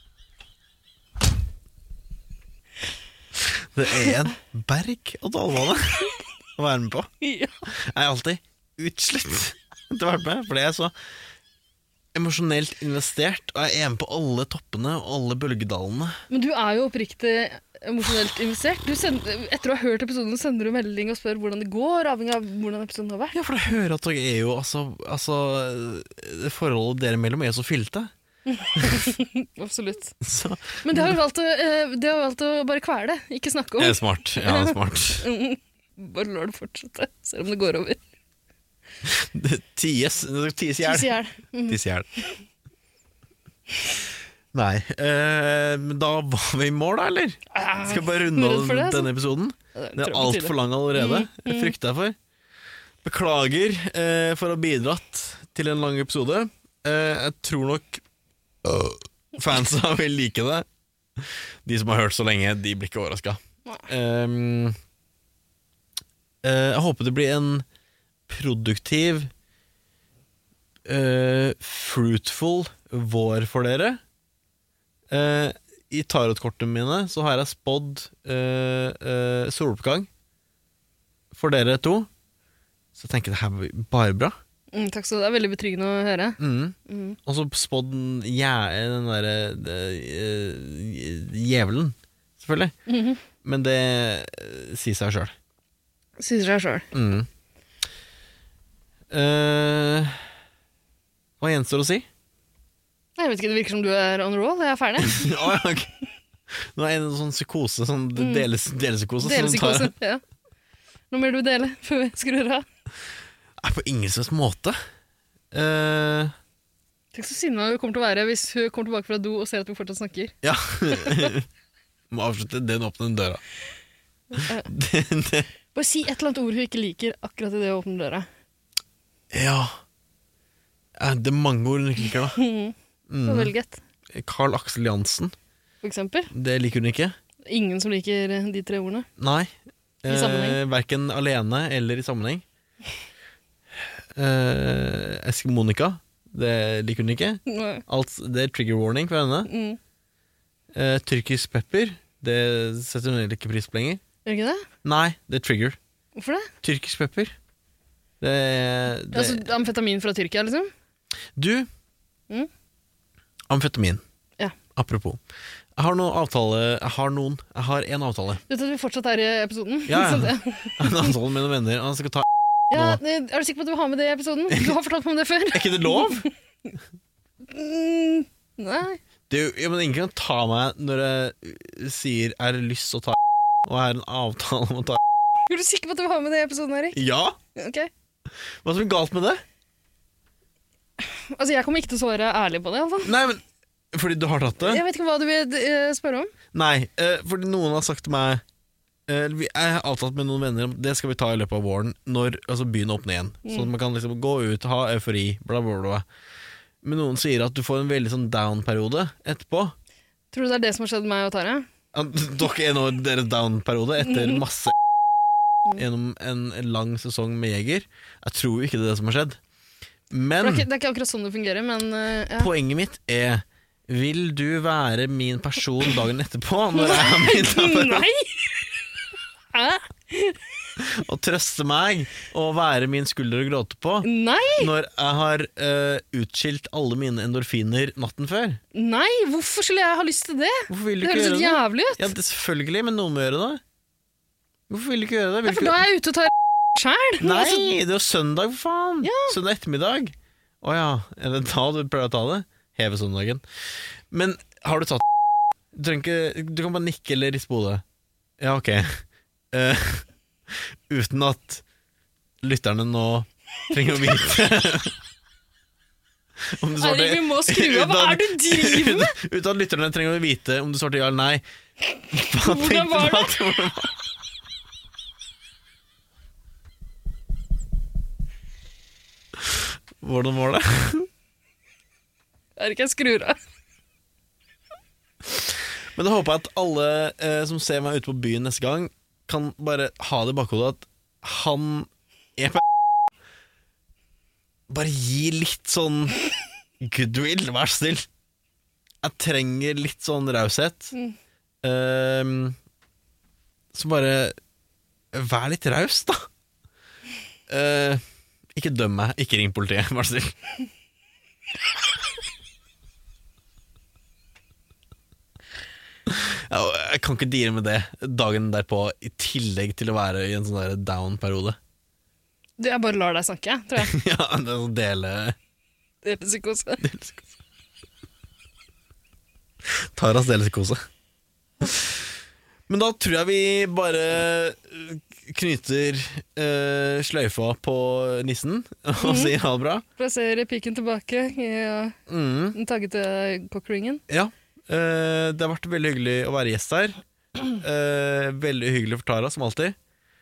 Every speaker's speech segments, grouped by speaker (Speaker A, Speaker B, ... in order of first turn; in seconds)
Speaker A: 3.5-7.1, 7.7-10.9, 12.2-16.2, 23.3-28.1, 28.8-29.0, 30.2-31.2, 33.8-35.3, 39.0-41.1, 41.7-42.1, 44.5-52.2, 53.0-58.0, 58.6-60.7, 61.2-64.8, 66.4-67.7, 68.3-69.3, 70.9-74.0, 75.1-80.1, 81.3-82.1, 83.0-84.4, 86.4-92.7, 93.4-95.3, 96.9-97.3, 99.1-100.2, 101.4-102.1, 105.0-105.9, 106.5-109.9, 113.6-114.8, 115.5-116.3, 120.4-121.5, 122.1-123.4, 124.4-125.5, 129.3-129.8, 131.0-132.4, 133.1-133.5, 134.1-135.3, 136.3-137.2, 139.2-139.5, 140.0-142.4, 144.2-149.5, 150.7-154.0, 154.8-155.8, 156.6-157.3, 158.2-159.5, 161.4-161.7, 163.5-164.0, 164.8-165.2, 165.8-168.4, 169.9-173.0, 174.5-174.8, 175.5-176.3, 179.3-185.0, 186.9-187.4, 188.6-189.4, 193.1-194.8, 196.5-198.4, 199.1-206.1, 206.8-209.8, 211.9-214.7, 215.8-219.4, 220.1-220.7, 222.4-228.1, 230.8-238.6, 240.7-243.6, 244.7-245.8, 247.2-253.4, 254.1-255.1, 255.7-257.8, 258.4-261.6, 262.4-264.9, 266.4-271.4, 272.1-273.9, 279.4-281.1, 285.9-292.6, 294.7-296.2, 296.8-298.1, 299.0-300.9, 301.6-302.6, 303.7-304.4, 305.1-306.3, 307.5-308.0, 308.6-310.4, 316.1-321.6, 323.8-325.4, 326.8-327.3, 329.7-330.8, 331.6-332.1, 332.7-339.8, 342.1-342.6, 344.1-347.0, 347.5-349.8
Speaker B: 7.2-7.5, 16.3-23.4, 28.5-30.2, 30.8-38.0, 40.8-41.8, 47.5-49.1, 49.8-51.7, 84.7-86.4, 86.9-87.2, 92.9-93.2, 96.2-96.9, 103.2-105.5, 108.2-108.4, 109.2-110.2, 111.1-112.7, 117.1-120.3, 121.0-121.3, 125.8-128.3, 132.3-132.7, 133.3-133.8, 135.8-136.3, 137.5-139.1, 140.1-140.6, 147.5-147.8, 149.5-149.8, 154.3-154.6, 156.2-156.5, 159.1-160.7, 168.5-171.2, 172.7-176.3, 177.5-179.0, 185.5-187.0, 187.6-187.9, 191.0-193.2, 194.6-196.3, 203.5-203.7, 210.3-211.7, 214.1-214.4, 220.4-222.5, 226.7-228.7, 229.5-230.4, 234.0-234.7, 238.7-242.1, 245.5-247.7, 249.0-249.3, 266.8-269.1, 272.1-273.3, 282.6-283.4, 322.6-323.9, 326.0-326.8, 339.0-339.3, 340.0-342.0, 342.5-344.0